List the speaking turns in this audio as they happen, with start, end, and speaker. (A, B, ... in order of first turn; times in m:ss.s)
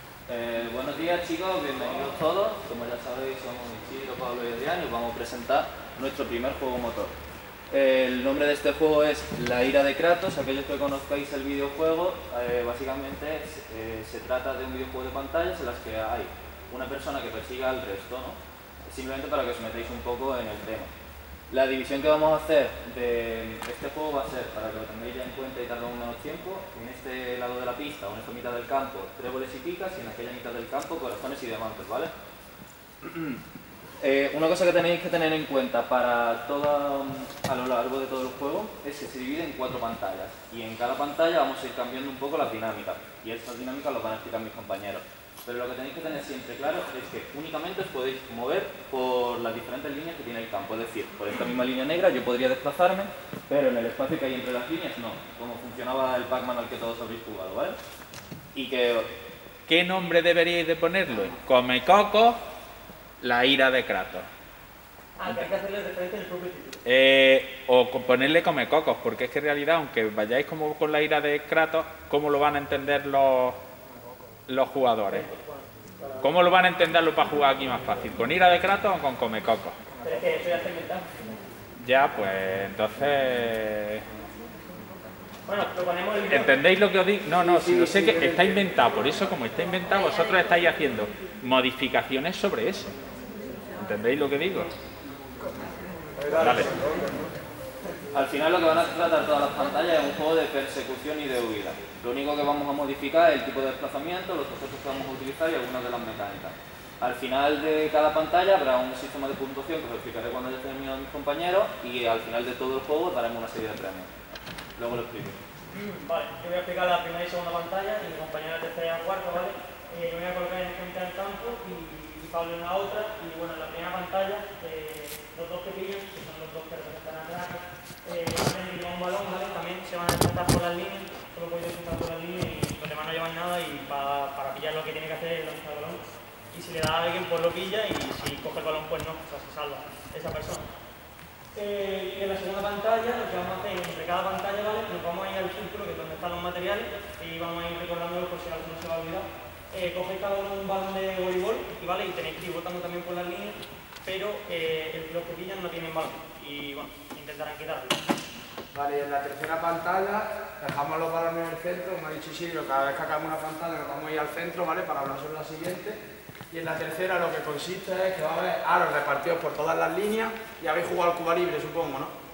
0:00.3-0:07.1 A
0:07.7-0:20.9 A
0:21.5-0:32.1 A
0:33.0-0:33.4 A
0:34.0-0:57.8 A
0:58.5-0:59.1 A
0:59.7-1:02.4 B
1:03.2-1:04.3 B
1:05.2-1:06.8 C
1:06.8-1:13.6 B
1:14.5-1:15.3 B
1:15.1-1:16.3 C
1:16.2-1:19.8 B
1:20.0-1:21.1 C
1:21.8-1:24.0 B
1:25.5-1:26.5 C
1:26.3-1:32.9 B
1:33.8-1:34.7 B
1:36.4-1:36.7 B
1:38.1-1:54.1 A
1:54.8-1:55.4 A
1:55.7-2:16.0 C
2:16.5-2:20.7 C
2:21.5-2:38.0 C
2:38.7-2:46.0 D
2:46.5-2:52.1 D